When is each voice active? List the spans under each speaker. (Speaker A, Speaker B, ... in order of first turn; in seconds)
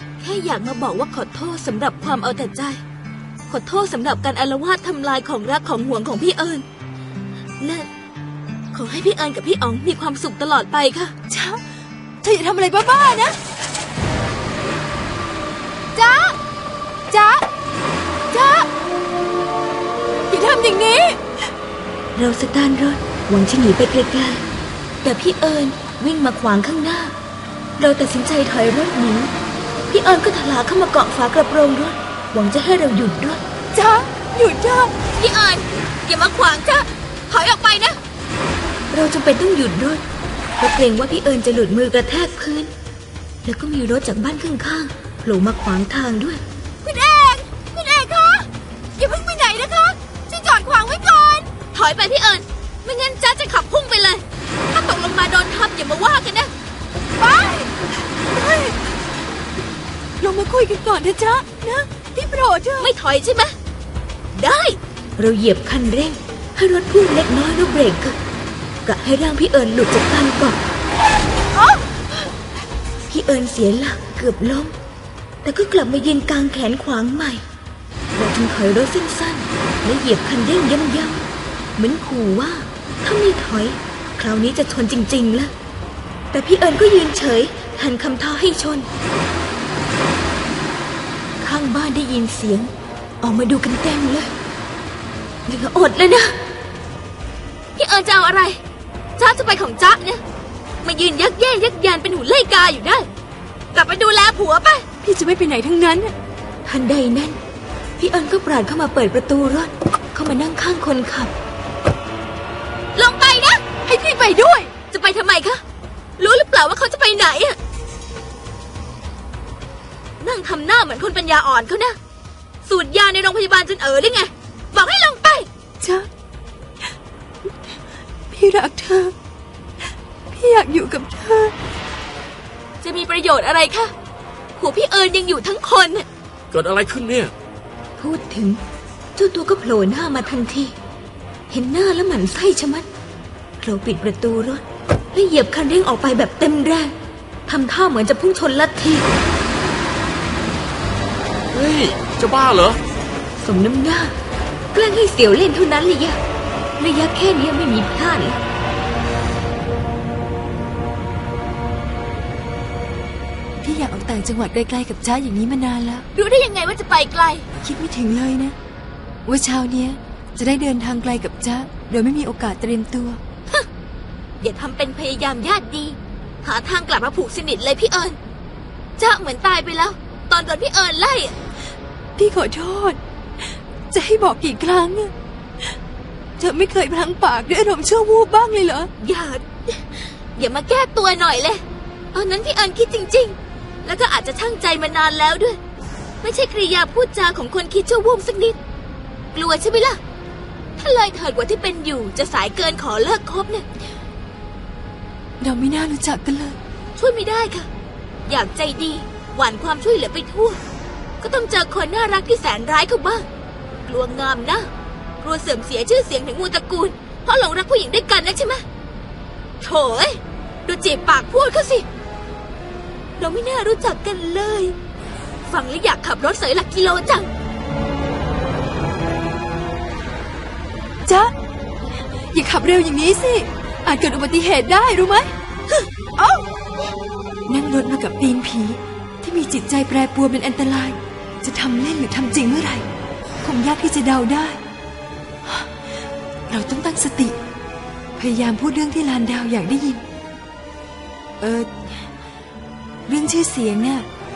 Speaker A: 0.2-2.8, 3.5-6.7, 7.6-7.9, 8.7-11.2, 22.1-24.5, 25.0-27.1, 27.8-29.3, 29.9-33.4, 35.2-38.0, 38.9-40.0, 40.6-42.7, 43.4-56.5, 62.8-63.5, 64.3-68.2, 68.8-70.6, 73.1-74.8, 75.4-77.5, 78.1-81.2, 81.8-85.5, 86.3-88.9, 91.4-94.3, 95.5-96.4, 97.8-98.6, 99.2-100.2, 100.8-103.1, 103.7-104.9, 106.7-107.4, 108.0-111.3, 113.0-113.7, 114.9-115.6, 116.2-117.6, 120.2-122.0, 122.7-125.5, 132.8-133.9, 134.6-136.1, 138.0-138.6, 139.2-140.8, 141.5-142.9, 143.6-146.9, 147.5-149.1, 153.4-154.1, 154.7-156.2, 156.8-158.4, 166.2-167.5, 174.4-178.2, 179.0-181.3, 189.0-195.6, 196.2-198.6, 199.3-200.0, 200.8-203.7, 207.0-207.7, 208.3-210.6, 211.2-213.3, 213.9-214.7, 215.2-218.7, 219.6-221.9, 223.2-224.8, 225.4-227.3
Speaker B: 11.3-11.6, 12.2-13.4, 15.9-16.4, 17.1-17.5, 18.3-18.7, 20.3-21.2, 33.7-34.9, 57.2-58.8, 60.2-62.9, 105.0-106.1, 113.9-114.7, 125.8-126.1, 128.3-129.1, 130.3-131.5, 163.6-166.1, 167.6-168.6, 169.2-173.2, 182.2-185.1, 186.4-188.9, 205.4-206.6, 231.1-231.3, 232.3-235.3, 236.2-236.4, 237.5-242.9, 243.4-244.6, 245.4-245.7, 246.5-247.4, 248.2-250.1, 251.4-252.1, 253.1-254.1
Speaker C: 136.5-137.3, 151.5-152.8